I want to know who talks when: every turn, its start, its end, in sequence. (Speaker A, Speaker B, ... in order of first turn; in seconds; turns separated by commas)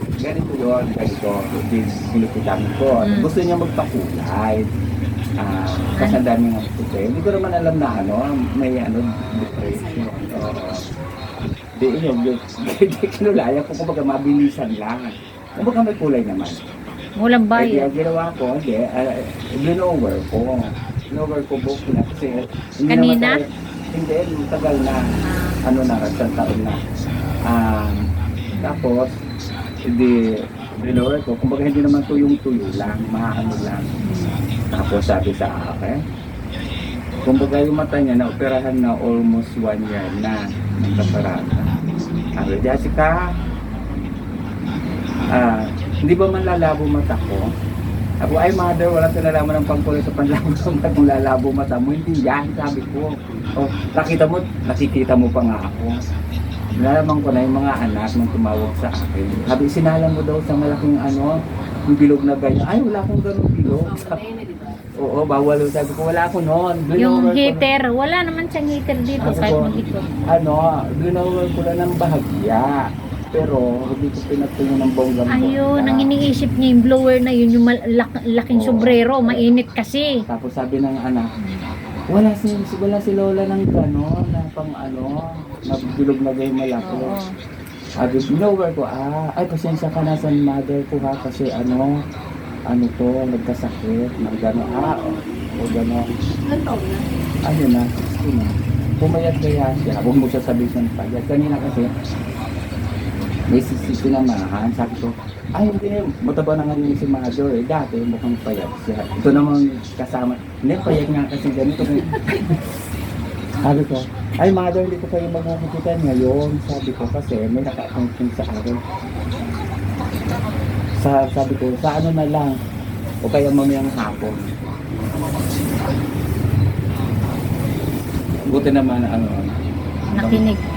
Speaker A: 0.2-4.7, Speaker B: 3.0-3.3, Speaker A: 5.4-10.8, Speaker C: 9.6-10.8, Speaker A: 11.8-16.6, Speaker B: 17.2-17.9, Speaker A: 17.6-26.8, Speaker B: 22.9-23.4, Speaker B: 25.2-25.6, Speaker A: 27.4-28.0, Speaker B: 28.5-28.8, Speaker A: 28.6-29.1, Speaker A: 29.8-33.9, Speaker B: 34.0-34.4, Speaker A: 34.7-36.0, Speaker A: 37.2-41.7, Speaker A: 42.4-43.3, Speaker A: 45.3-47.5, Speaker A: 48.2-56.0, Speaker A: 56.8-64.2, Speaker C: 63.8-64.8, Speaker A: 65.0-67.6, Speaker B: 67.0-70.1, Speaker A: 69.2-69.7, Speaker C: 69.2-69.5, Speaker A: 70.3-76.1, Speaker B: 75.3-80.1, Speaker A: 78.5-79.4, Speaker A: 80.3-81.3, Speaker B: 81.4-81.6, Speaker A: 82.1-87.2, Speaker B: 86.8-87.3, Speaker A: 88.0-92.0, Speaker A: 92.7-96.1, Speaker C: 94.5-95.5, Speaker C: 96.4-97.0, Speaker A: 97.4-101.9, Speaker A: 103.5-112.6, Speaker A: 113.6-118.8, Speaker A: 121.0-122.5, Speaker A: 123.2-124.5, Speaker A: 128.5-129.5, Speaker B: 130.2-130.6, Speaker A: 130.2-130.4